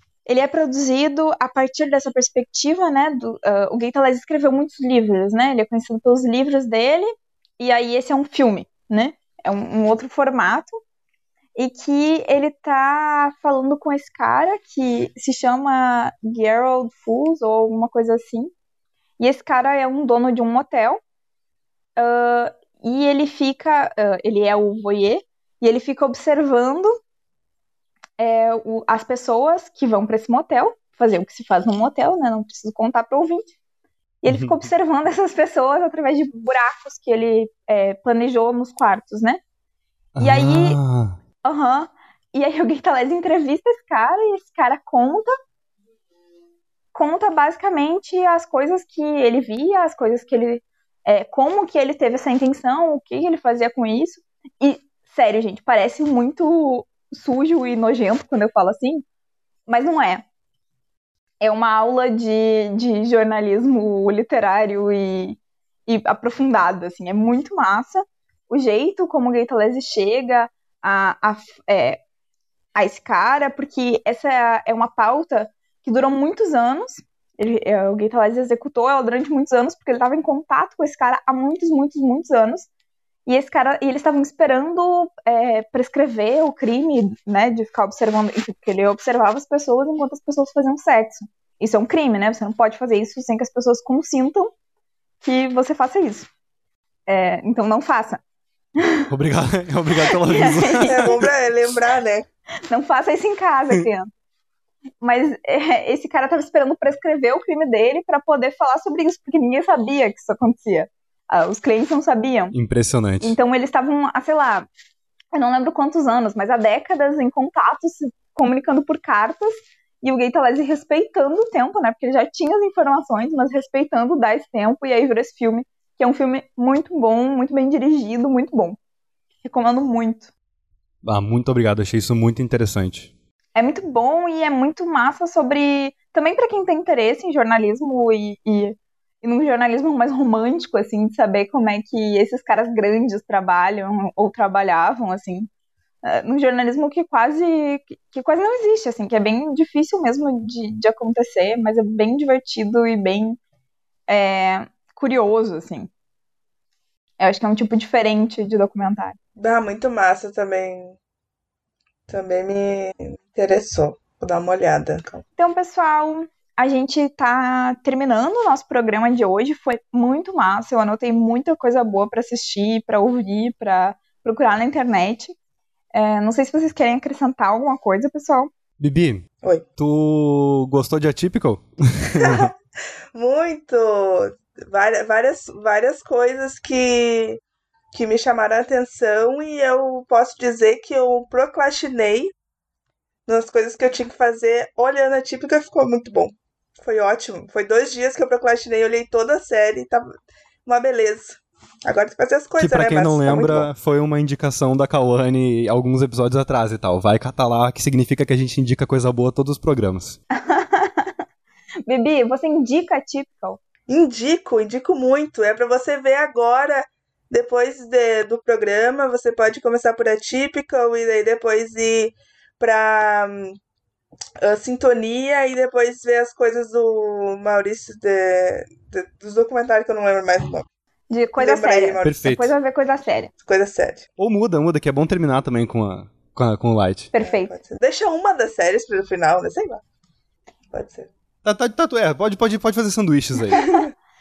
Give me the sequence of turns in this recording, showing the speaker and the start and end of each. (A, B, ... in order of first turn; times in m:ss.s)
0:00.3-0:10.7 A
0:11.6-0:18.5 A
0:19.2-0:21.0 A
0:22.0-0:26.9 A
0:28.2-0:33.6 A
0:34.2-0:39.4 A
0:34.3-0:34.6 B
0:40.2-0:41.2 B
0:40.2-0:40.8 A
0:41.4-0:45.3 A
0:46.9-0:59.0 A
0:59.7-1:00.2 A
1:01.4-1:12.0 A
1:12.8-1:22.7 A
1:23.3-1:34.5 A
1:35.2-1:36.3 A
1:37.1-1:38.2 A
1:38.8-1:39.1 A
1:39.1-1:41.2 B
1:40.0-1:41.2 A
1:40.8-1:42.3 C
1:42.7-1:44.1 A
1:45.0-1:52.6 A
1:52.5-1:53.4 B
1:53.2-1:54.7 A
1:55.3-2:08.8 A
2:09.4-2:10.3 A
2:11.0-2:13.1 B
2:13.6-2:25.5 A
2:26.0-2:33.4 A
2:34.1-2:35.9 A
2:37.2-2:39.2 A
2:39.4-2:41.0 C
2:42.1-2:45.2 C
2:45.4-2:55.4 A
2:55.9-2:58.5 A
2:58.8-2:59.2 B
2:59.8-3:02.5 B
3:02.2-3:02.5 C
3:03.1-3:07.4 C
3:07.9-3:12.3 C
3:13.3-3:20.1 C
3:20.6-3:23.7 C
3:22.6-3:30.2 B
3:30.3-3:31.2 A
3:31.9-3:33.6 A
3:33.9-3:43.6 C
3:44.4-3:50.7 C
3:51.1-3:53.3 A
3:51.4-3:52.2 C
3:52.0-3:52.5 B
3:53.4-3:54.1 C
3:54.2-3:57.1 B
3:57.1-3:57.5 A
3:57.2-3:59.8 C
4:00.7-4:01.1 C
4:01.4-4:03.8 B